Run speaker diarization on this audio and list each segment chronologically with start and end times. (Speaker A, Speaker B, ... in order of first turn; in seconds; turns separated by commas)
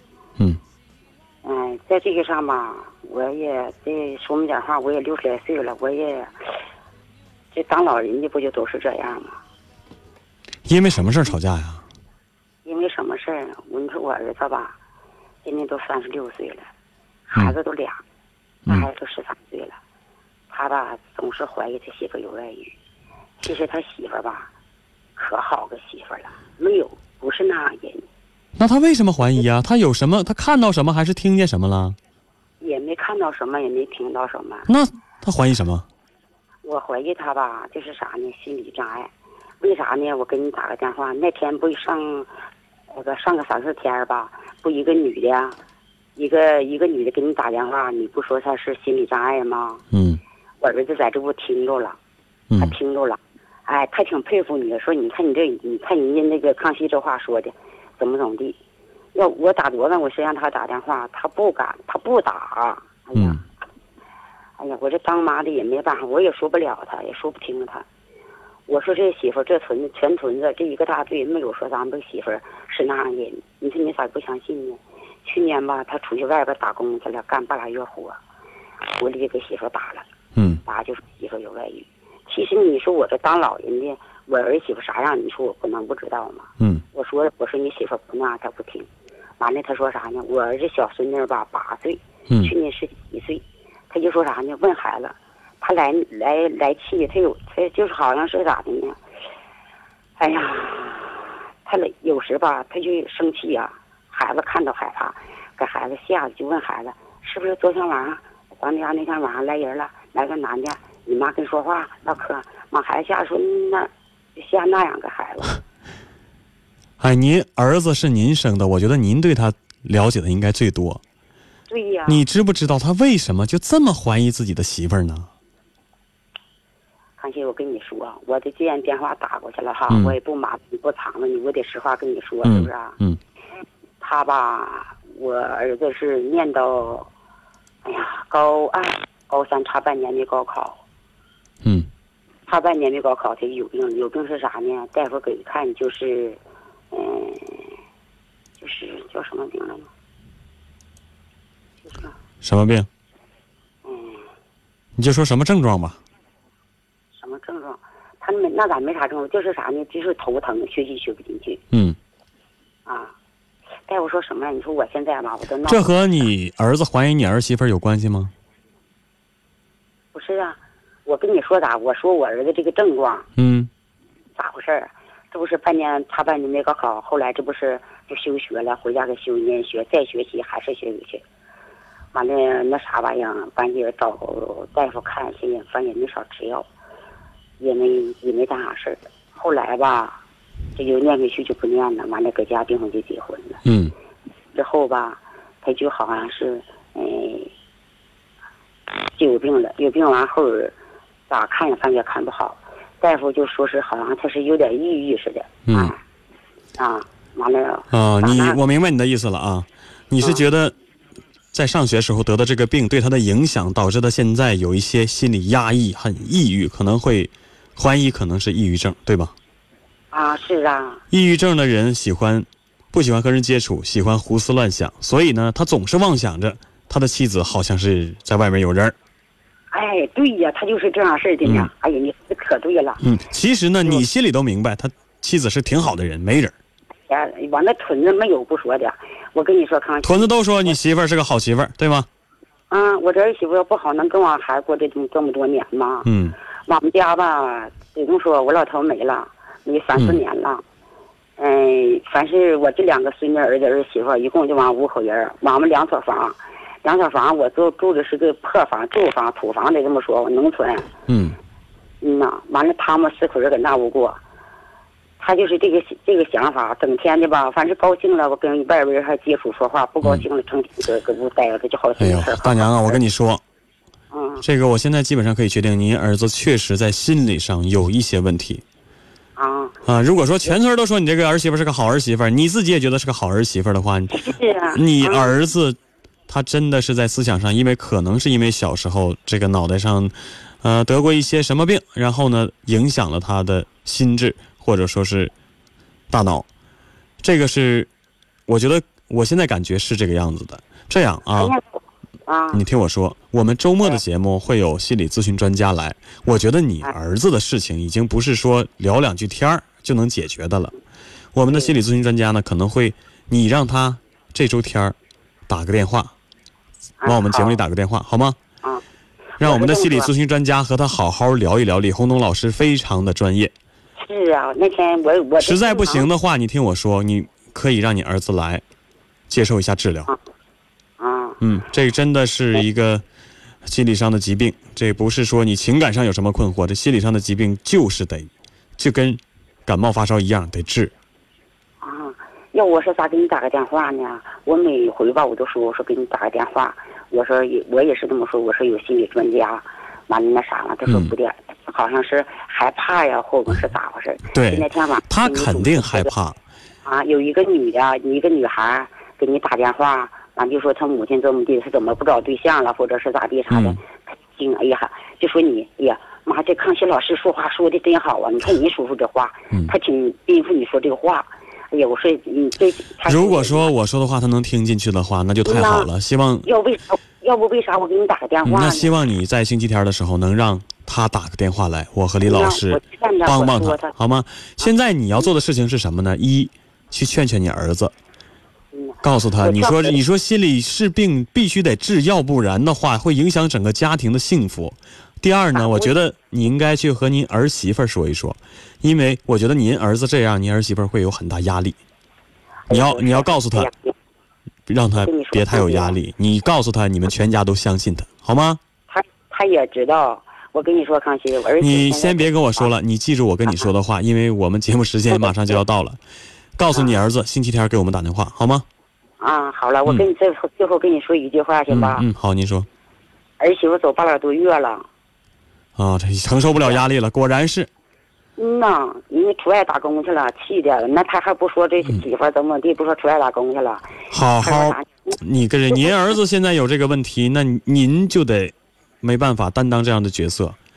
Speaker A: 1.4-6.3, Speaker A: 7.5-9.4, Speaker B: 10.7-11.8, Speaker A: 12.7-14.8, Speaker A: 15.4-16.7, Speaker A: 17.3-18.0, Speaker A: 18.7-19.8, Speaker A: 20.5-22.7, Speaker A: 23.4-24.5, Speaker A: 25.2-28.1, Speaker B: 28.6-32.0, Speaker A: 32.6-34.7, Speaker B: 34.7-35.9, Speaker A: 36.6-39.1, Speaker A: 39.6-42.3, Speaker A: 42.9-45.6, Speaker A: 46.2-49.8, Speaker B: 49.9-50.2, Speaker A: 50.6-52.0, Speaker A: 52.6-58.6, Speaker A: 59.1-63.4, Speaker B: 63.2-63.4, Speaker A: 64.6-67.8, Speaker A: 68.7-78.2, Speaker A: 79.0-80.1, Speaker B: 80.3-80.6, Speaker A: 80.7-88.9, Speaker A: 89.4-99.0, Speaker B: 92.3-92.5, Speaker A: 100.2-115.6, Speaker B: 117.0-121.0, Speaker A: 121.7-122.2, Speaker B: 122.1-125.3, Speaker A: 127.2-133.0, Speaker B: 129.9-130.2, Speaker B: 132.4-133.2, Speaker A: 134.0-137.1, Speaker A: 137.8-140.8, Speaker B: 141.6-141.9, Speaker A: 142.5-146.4, Speaker A: 146.9-147.8, Speaker A: 148.6-149.9, Speaker A: 151.9-152.1, Speaker B: 152.4-152.9, Speaker A: 153.8-154.2, Speaker B: 155.0-156.0, Speaker A: 157.2-161.6, Speaker B: 161.7-162.0, Speaker A: 162.9-163.1, Speaker A: 163.9-165.9, Speaker B: 165.7-168.3, Speaker A: 170.1-173.3, Speaker B: 173.4-173.7, Speaker A: 174.4-181.2, Speaker A: 182.1-186.7, Speaker A: 187.6-190.2, Speaker A: 190.8-193.6, Speaker B: 193.7-193.9, Speaker A: 194.5-197.5, Speaker A: 199.1-200.8, Speaker A: 201.3-206.0, Speaker B: 205.7-205.9, Speaker A: 206.8-208.6, Speaker B: 207.9-210.8, Speaker B: 211.5-219.3, Speaker A: 220.1-221.0, Speaker B: 221.1-229.0, Speaker A: 229.7-233.0, Speaker B: 231.4-231.7, Speaker B: 233.0-236.6, Speaker A: 237.1-240.3, Speaker B: 240.0-242.1, Speaker A: 242.7-246.1, Speaker B: 246.1-246.4, Speaker A: 246.7-250.6, Speaker A: 251.4-260.9, Speaker B: 261.1-261.4, Speaker A: 262.0-264.2, Speaker A: 265.2-273.0, Speaker B: 272.0-273.4, Speaker A: 274.1-274.4, Speaker B: 274.4-278.6, Speaker A: 279.4-279.8, Speaker B: 279.9-295.3, Speaker A: 284.1-285.3, Speaker B: 296.1-296.5, Speaker B: 297.2-297.9, Speaker B: 298.5-301.6, Speaker A: 301.4-302.6, Speaker B: 302.5-310.7, Speaker B: 311.3-315.0, Speaker B: 315.5-316.1, Speaker A: 317.0-317.6, Speaker B: 317.0-318.4, Speaker A: 319.4-320.1, Speaker B: 319.4-323.5, Speaker A: 324.0-326.1, Speaker B: 325.4-328.6, Speaker B: 329.3-330.1, Speaker A: 331.0-331.4, Speaker B: 331.4-333.0, Speaker B: 333.6-340.9, Speaker A: 341.8-356.1, Speaker B: 350.9-351.1, Speaker B: 354.3-356.4, Speaker A: 356.9-373.7, Speaker B: 363.5-363.8, Speaker B: 373.1-376.5, Speaker A: 375.4-375.9, Speaker A: 376.4-378.9, Speaker B: 378.4-387.9, Speaker A: 382.2-383.9, Speaker A: 388.7-390.0, Speaker B: 389.0-401.8, Speaker A: 395.6-395.9, Speaker A: 402.7-403.9, Speaker B: 402.7-403.7, Speaker B: 404.7-408.6, Speaker A: 405.0-406.0, Speaker A: 408.9-412.7, Speaker B: 411.6-416.0, Speaker B: 416.6-418.7, Speaker A: 419.2-422.1, Speaker B: 421.7-422.7, Speaker A: 423.4-424.9, Speaker B: 425.8-427.7, Speaker A: 428.4-435.1, Speaker B: 434.1-440.6, Speaker A: 435.7-436.0